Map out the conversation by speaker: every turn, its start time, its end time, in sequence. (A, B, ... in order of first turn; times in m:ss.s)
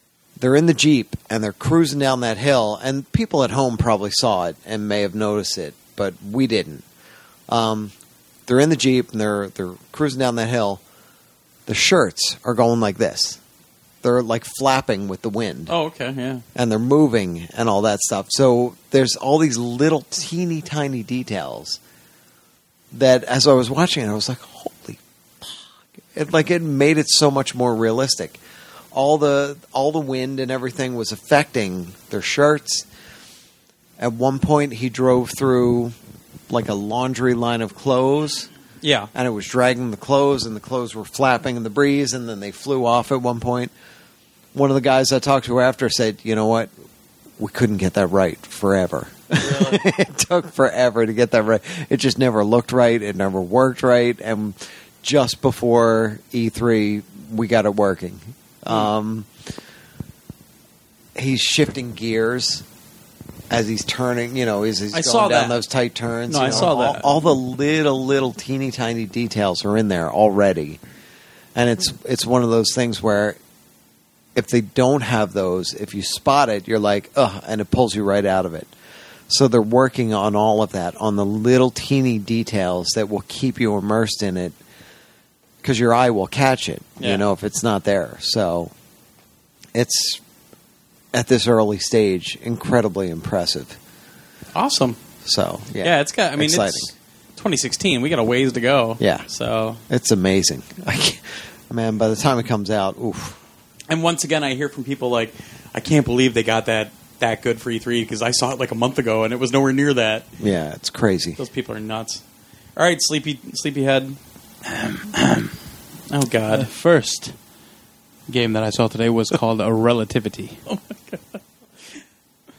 0:00.4-0:06.8 A
0:07.5-0:07.9 A
0:08.5-0:10.8 A
0:11.7-0:13.4 A
0:14.0-0:15.7 A
0:15.7-0:16.4 B
0:16.5-0:21.8 A
0:22.9-0:28.4 A
0:28.9-0:32.8 A
0:34.0-0:35.9 A
0:36.5-0:38.5 A
0:38.8-0:39.1 B
0:39.1-0:43.7 A
0:44.5-0:46.7 A
0:47.4-0:59.3 A
0:49.4-0:49.8 B
1:01.2-1:02.6 A
1:03.5-1:10.8 A
1:04.9-1:05.6 B
1:06.3-1:07.1 B
1:11.5-1:13.4 A
1:14.3-1:18.7 A
1:19.3-1:24.6 A
1:25.6-1:28.7 A
1:27.0-1:27.2 B
1:29.7-1:30.2 A
1:31.1-1:33.8 A
1:34.5-1:35.0 B
1:35.2-1:36.9 A
1:35.8-1:39.8 B
1:39.0-1:39.2 A
1:39.9-1:43.4 A
1:43.9-1:50.3 B
1:50.4-1:51.4 A
1:51.4-1:52.2 B
1:52.8-1:54.2 B
1:54.6-1:55.5 C
1:56.1-1:56.7 B
1:56.5-1:57.3 C
1:58.3-2:00.6 C
2:00.7-2:01.4 B